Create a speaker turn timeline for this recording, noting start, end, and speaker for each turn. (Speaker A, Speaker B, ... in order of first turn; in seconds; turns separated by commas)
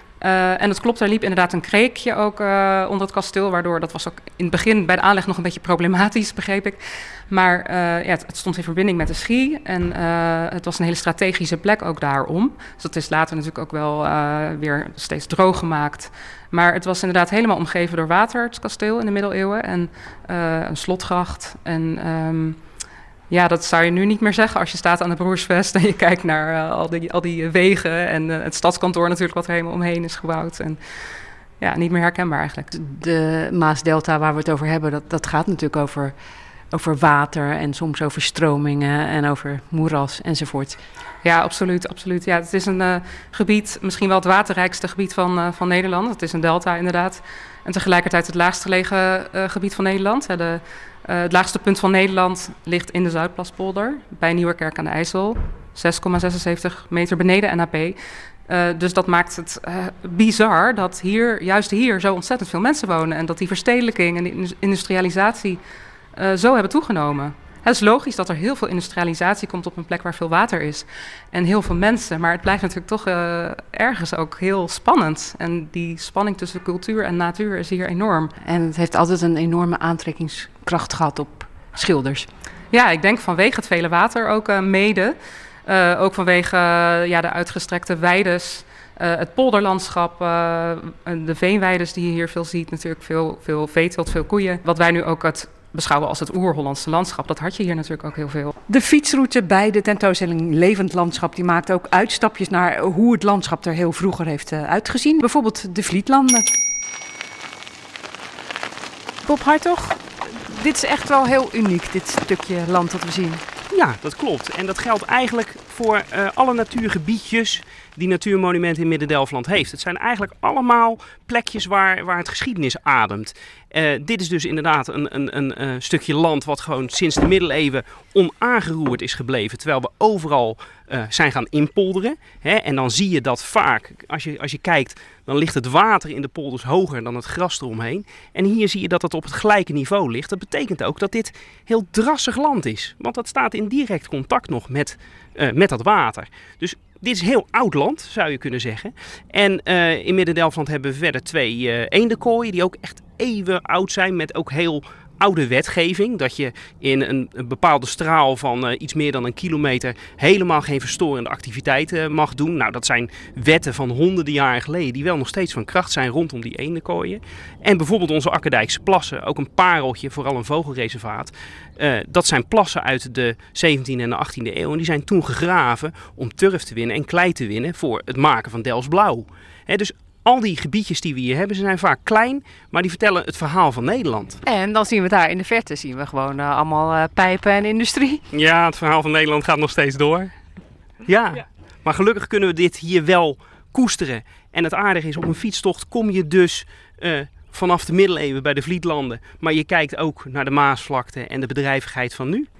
Speaker A: 0.2-22.6, Speaker A: 23.3-30.8, Speaker A: 31.6-32.7, Speaker B: 32.7-36.1, Speaker B: 36.7-40.8, Speaker A: 41.2-65.6, Speaker A: 66.1-78.3, Speaker B: 78.4-82.2, Speaker A: 82.7-98.5, Speaker B: 98.7-106.5, Speaker B: 109.2-113.4, Speaker C: 113.7-184.4, Speaker B: 184.4-188.2, Speaker C: 188.3-190.3, Speaker C: 191.0-202.5